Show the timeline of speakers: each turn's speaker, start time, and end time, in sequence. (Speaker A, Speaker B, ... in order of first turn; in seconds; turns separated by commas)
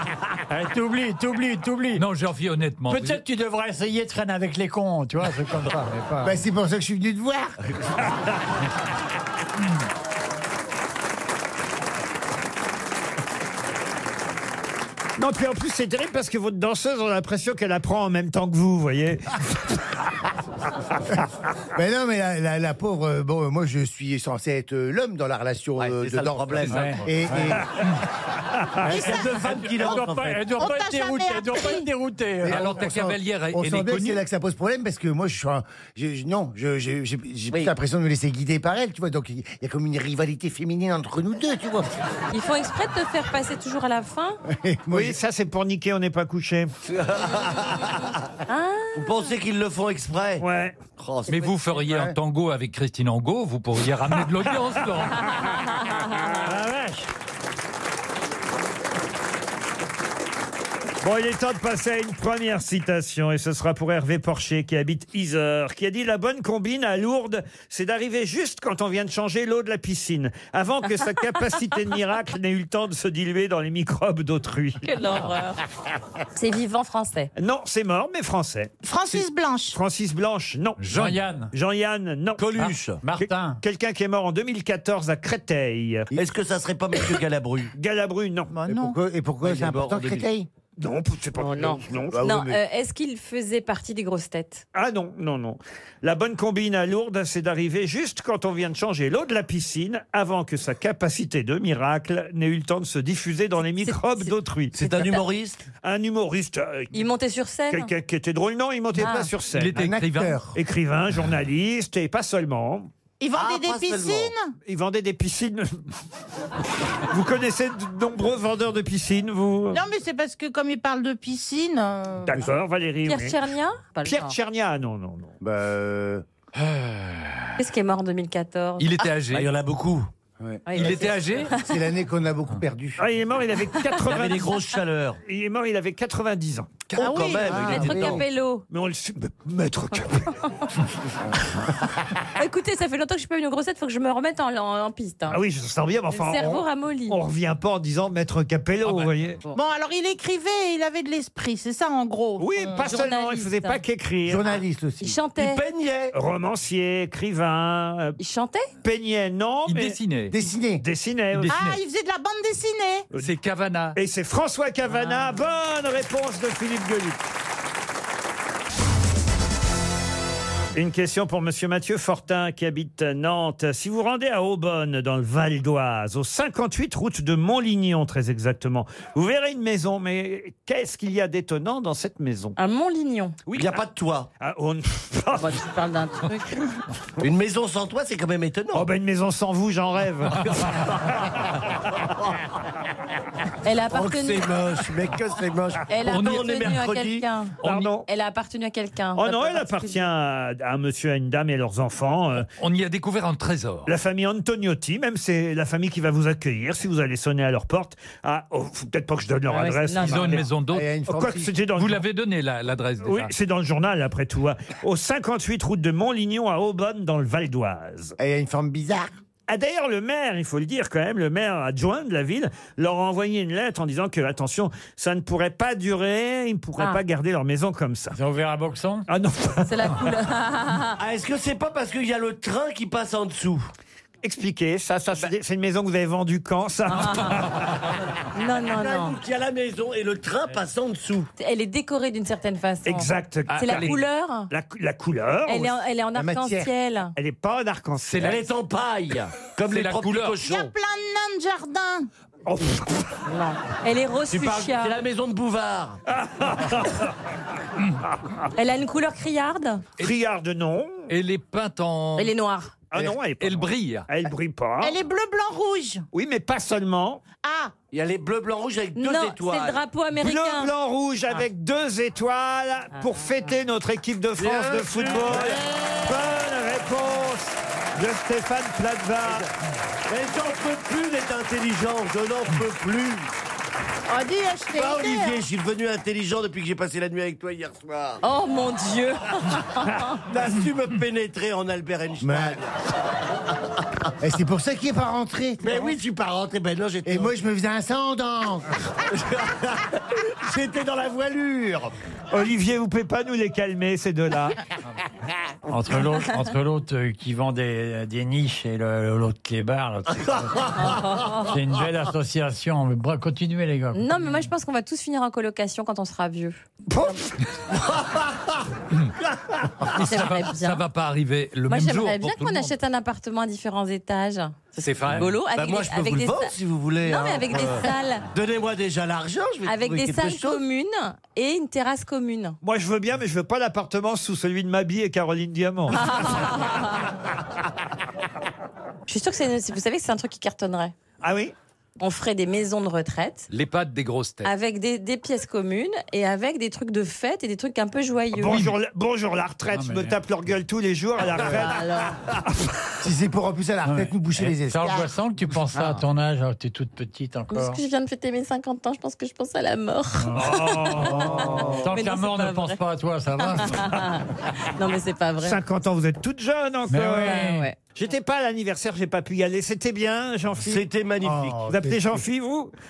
Speaker A: 0.5-2.0, Speaker B: 2.0-3.2, Speaker A: 2.9-6.3, Speaker C: 6.2-7.6, Speaker D: 15.2-19.8, Speaker C: 21.7-27.7, Speaker E: 25.8-27.0, Speaker A: 26.7-27.6, Speaker E: 28.8-30.5, Speaker A: 28.9-32.6, Speaker F: 30.6-31.9, Speaker C: 32.4-41.9, Speaker B: 32.5-34.2, Speaker G: 42.3-44.4, Speaker C: 44.5-45.2, Speaker D: 44.9-46.7, Speaker E: 46.9-48.1, Speaker G: 48.5-49.3, Speaker E: 49.0-50.5, Speaker D: 50.4-50.8, Speaker E: 51.0-51.3, Speaker B: 51.3-55.3, Speaker G: 51.3-51.5, Speaker C: 51.9-52.1, Speaker G: 55.6-56.4, Speaker A: 56.4-57.0, Speaker D: 61.0-75.1, Speaker G: 74.8-75.6, Speaker G: 76.4-77.3, Speaker D: 77.4-80.8, Speaker F: 78.8-79.8, Speaker B: 80.8-81.2, Speaker A: 81.0-81.5, Speaker D: 81.5-82.4, Speaker E: 82.4-83.0, Speaker A: 82.6-83.6, Speaker D: 83.2-86.1, Speaker E: 86.1-87.7, Speaker D: 87.8-88.7, Speaker F: 88.6-88.9, Speaker C: 88.6-90.5, Speaker E: 89.4-90.3, Speaker D: 90.8-92.3, Speaker G: 91.4-94.7, Speaker C: 92.1-92.6, Speaker D: 94.7-104.9, Speaker G: 103.8-104.3, Speaker E: 104.7-105.7, Speaker D: 105.8-107.1, Speaker G: 106.9-107.9, Speaker D: 107.7-109.9, Speaker G: 109.0-109.3, Speaker B: 109.5-110.5, Speaker C: 109.7-110.5, Speaker D: 110.5-112.9, Speaker F: 113.2-114.6, Speaker E: 113.3-114.3, Speaker D: 114.7-115.8, Speaker D: 117.1-119.8, Speaker F: 119.7-122.5, Speaker D: 122.2-123.4, Speaker G: 123.0-124.4, Speaker D: 124.0-125.4, Speaker C: 125.4-126.2, Speaker B: 126.5-127.6, Speaker G: 127.6-129.1, Speaker B: 128.8-129.5, Speaker E: 129.3-130.1, Speaker C: 130.4-133.0, Speaker G: 130.7-131.7, Speaker B: 130.7-131.5, Speaker D: 133.0-134.5, Speaker E: 134.1-135.2, Speaker D: 135.2-136.8, Speaker E: 136.9-138.2, Speaker C: 137.0-138.2, Speaker F: 137.0-137.9, Speaker G: 137.2-138.7, Speaker D: 138.7-140.4, Speaker G: 142.4-145.4, Speaker D: 145.3-149.4, Speaker G: 146.1-147.2, Speaker B: 148.8-149.1, Speaker F: 149.5-152.4, Speaker D: 152.4-154.6, Speaker G: 152.6-153.8, Speaker C: 154.3-155.2, Speaker G: 155.0-155.7, Speaker E: 155.4-156.2, Speaker D: 156.1-158.2, Speaker G: 158.2-158.7, Speaker D: 158.8-160.0, Speaker B: 159.7-160.3, Speaker C: 160.3-160.8, Speaker D: 160.8-161.6, Speaker B: 161.3-161.8, Speaker F: 161.5-163.1, Speaker B: 163.2-164.0, Speaker D: 163.9-167.2, Speaker G: 164.9-165.4, Speaker D: 170.8-182.6, Speaker G: 182.6-183.4, Speaker D: 183.5-183.8, Speaker E: 183.5-184.3, Speaker D: 184.4-185.6, Speaker G: 185.4-186.8, Speaker E: 187.2-188.9, Speaker D: 188.7-190.6, Speaker E: 190.4-191.5, Speaker G: 193.6-194.6, Speaker E: 193.9-197.3, Speaker G: 195.9-200.1, Speaker B: 196.0-196.8, Speaker D: 197.6-198.1, Speaker B: 197.6-197.9, Speaker D: 199.2-202.5, Speaker B: 202.6-203.9, Speaker D: 203.9-210.5, Speaker G: 209.5-210.3, Speaker B: 210.0-210.9, Speaker C: 210.7-211.5, Speaker D: 211.1-212.0, Speaker B: 211.8-213.3, Speaker D: 213.0-218.2, Speaker C: 218.2-219.1, Speaker D: 219.5-228.2, Speaker A: 228.1-229.1, Speaker D: 229.1-230.1, Speaker G: 229.6-231.0, Speaker E: 231.0-233.7, Speaker D: 234.2-237.6, Speaker G: 238.3-239.2, Speaker E: 238.7-241.3, Speaker G: 241.4-244.5, Speaker D: 242.8-245.8, Speaker B: 243.5-244.0, Speaker G: 245.5-247.1, Speaker C: 246.2-246.7, Speaker D: 247.2-248.4, Speaker B: 248.1-248.4, Speaker E: 248.2-250.7, Speaker B: 249.7-250.5, Speaker F: 250.4-252.1, Speaker D: 252.5-253.2, Speaker G: 253.3-255.0, Speaker E: 254.3-256.0, Speaker D: 256.1-257.1, Speaker G: 258.6-259.9, Speaker D: 260.0-261.1, Speaker B: 261.1-262.3, Speaker G: 262.2-262.8, Speaker D: 262.9-265.0, Speaker B: 263.0-264.1, Speaker F: 264.8-266.1, Speaker D: 266.1-267.2, Speaker F: 267.4-267.7, Speaker E: 267.9-269.8, Speaker G: 268.9-270.7, Speaker D: 270.1-279.5, Speaker G: 272.9-273.3, Speaker E: 274.4-276.0, Speaker C: 275.3-275.6, Speaker E: 280.1-283.3, Speaker F: 284.1-285.4, Speaker E: 284.7-288.2, Speaker G: 288.2-290.1, Speaker E: 290.3-292.8, Speaker C: 292.2-292.6, Speaker C: 294.2-295.9, Speaker E: 295.6-297.3, Speaker C: 297.0-298.7, Speaker E: 299.1-301.9, Speaker D: 302.3-304.6, Speaker A: 305.7-314.5, Speaker G: 310.9-311.5, Speaker G: 313.9-316.6, Speaker D: 316.9-317.3, Speaker B: 318.9-319.2, Speaker G: 319.9-320.8, Speaker B: 319.9-322.8, Speaker G: 321.7-328.3, Speaker B: 324.8-325.4, Speaker E: 325.5-330.6, Speaker G: 329.6-332.6, Speaker D: 332.6-336.5, Speaker G: 335.9-337.1, Speaker G: 339.1-340.9, Speaker D: 341.2-341.5, Speaker G: 342.0-343.5, Speaker B: 343.5-344.5, Speaker G: 344.4-348.7, Speaker D: 348.3-352.4, Speaker A: 349.7-350.2, Speaker G: 351.4-352.2, Speaker C: 353.0-355.1, Speaker A: 353.9-357.8, Speaker G: 357.5-362.8, Speaker A: 360.2-364.0, Speaker D: 360.4-361.8, Speaker G: 363.4-365.6, Speaker D: 365.4-370.9, Speaker A: 366.9-367.7, Speaker G: 367.2-367.8, Speaker E: 370.6-371.6, Speaker C: 371.2-372.2, Speaker D: 371.7-372.7